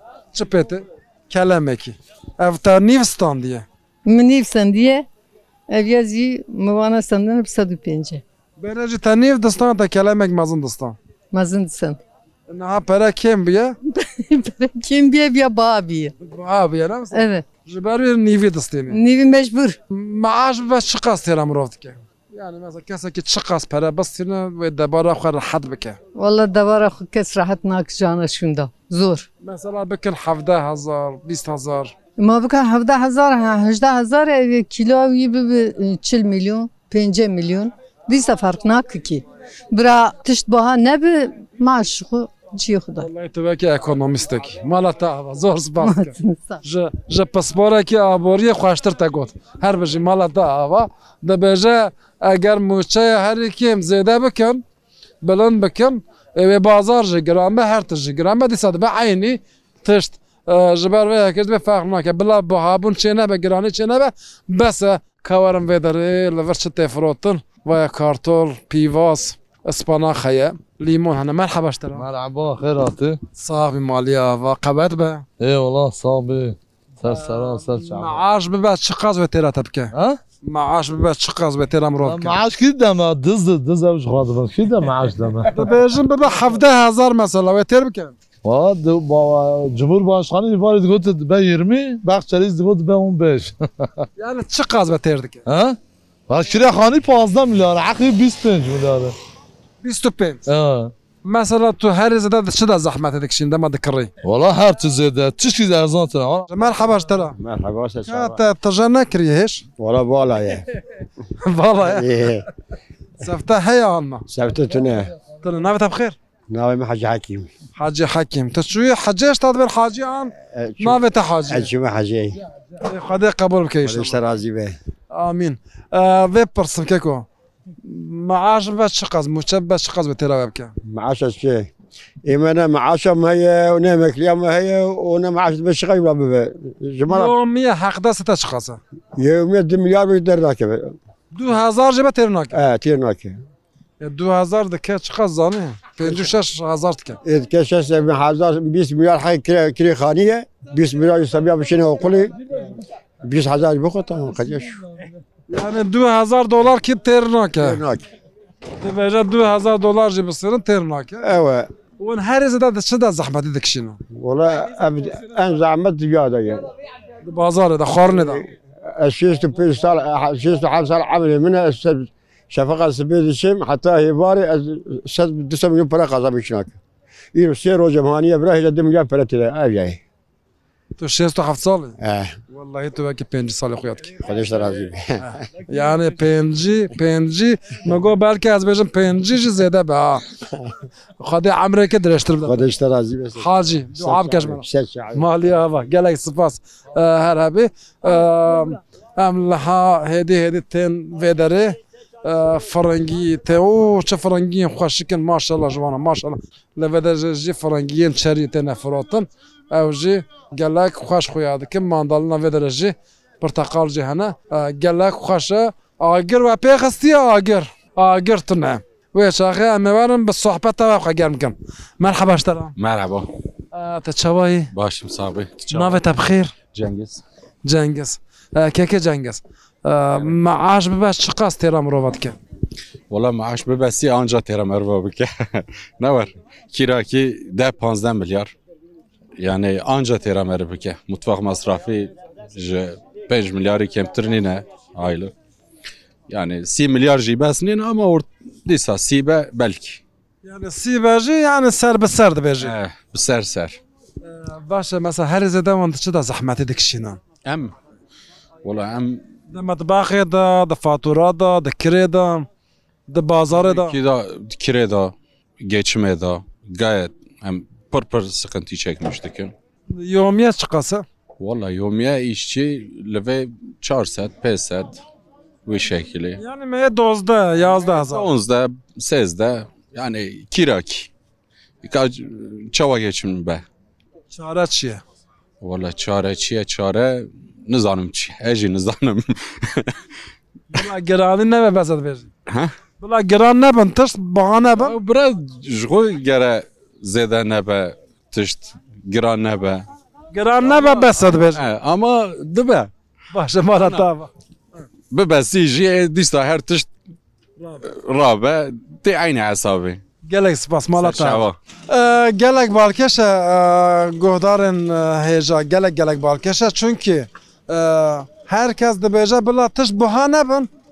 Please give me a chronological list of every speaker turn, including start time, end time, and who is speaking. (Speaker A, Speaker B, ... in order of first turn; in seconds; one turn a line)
Speaker A: 0.3-3.7
Speaker B: 4.1-5.1
Speaker B: 5.7-8.2
Speaker A: 8.6-11.0
Speaker B: 11.3-12.0
Speaker A: 12.5-13.8
Speaker B: 13.9-16.1
Speaker A: 16.2-19.0
Speaker B: 17.1-17.5
Speaker B: 18.9-19.8
Speaker A: 19.9-26.0
Speaker B: 26.2-29.3
Speaker A: 29.4-31.9
Speaker B: 32.2-43.1
Speaker A: 43.0-54.6
Speaker B: 45.8-46.6
Speaker A: 55.2-72.1
Speaker C: 72.0-73.2
Speaker A: 73.4-75.2
Speaker C: 75.4-78.2
Speaker A: 77.0-79.9
Speaker C: 79.9-80.2
Speaker A: 80.4-82.4
Speaker C: 82.0-85.6
Speaker A: 85.5-88.1
Speaker C: 88.5-93.9
Speaker A: 94.2-95.4
Speaker C: 95.5-95.8
Speaker C: 96.3-99.1
Speaker A: 99.8-100.4
Speaker C: 100.5-100.9
Speaker A: 101.2-104.1
Speaker C: 104.2-106.5
Speaker A: 106.5-107.4
Speaker D: 107.4-108.4
Speaker A: 108.0-109.6
Speaker D: 109.8-110.7
Speaker A: 111.4-112.2
Speaker D: 111.8-112.5
Speaker A: 113.2-114.3
Speaker D: 114.3-115.1
Speaker A: 115.4-116.2
Speaker D: 116.5-117.5
Speaker A: 117.8-121.7
Speaker D: 120.5-122.4
Speaker A: 122.8-124.2
Speaker D: 123.8-124.8
Speaker A: 125.1-127.3
Speaker A: 127.8-130.7
Speaker D: 130.9-131.7
Speaker D: 132.3-137.3
Speaker A: 137.1-138.8
Speaker D: 139.2-141.0
Speaker A: 141.3-142.6
Speaker D: 142.5-143.4
Speaker A: 144.0-147.2
Speaker D: 147.2-152.4
Speaker D: 153.2-154.8
Speaker A: 155.5-157.8
Speaker D: 157.6-158.0
Speaker A: 158.8-161.2
Speaker D: 161.2-161.7
Speaker A: 162.0-164.0
Speaker D: 164.2-166.7
Speaker A: 167.2-168.4
Speaker D: 168.1-176.8
Speaker D: 177.3-180.0
Speaker A: 181.0-182.0
Speaker D: 182.0-182.3
Speaker A: 182.5-184.2
Speaker D: 184.2-185.2
Speaker A: 185.2-190.2
Speaker A: 191.2-192.7
Speaker D: 192.4-193.5
Speaker A: 193.4-222.8
Speaker D: 194.0-195.2
Speaker E: 222.8-223.3
Speaker A: 223.7-224.7
Speaker E: 224.7-226.0
Speaker A: 225.7-226.5
Speaker E: 226.7-227.2
Speaker A: 227.7-232.4
Speaker E: 233.1-238.5
Speaker E: 239.4-245.3
Speaker E: 246.3-250.0
Speaker A: 250.4-252.8
Speaker E: 252.6-253.8
Speaker A: 254.2-257.2
Speaker E: 257.4-257.7
Speaker E: 258.6-259.2
Speaker A: 259.5-262.5
Speaker A: 263.1-264.0
Speaker E: 263.6-269.5
Speaker A: 269.9-271.1
Speaker E: 271.4-275.0
Speaker E: 275.7-276.4
Speaker A: 276.4-278.3
Speaker E: 277.7-281.1
Speaker E: 281.8-283.6
Speaker A: 284.3-285.0
Speaker E: 285.6-290.0
Speaker A: 290.7-292.3
Speaker E: 292.5-292.7
Speaker A: 293.0-295.0
Speaker E: 294.8-299.8
Speaker A: 300.3-301.6
Speaker E: 300.6-302.9
Speaker A: 303.3-304.3
Speaker E: 305.1-306.9
Speaker E: 307.9-310.0
Speaker A: 310.2-320.7
Speaker E: 311.0-311.6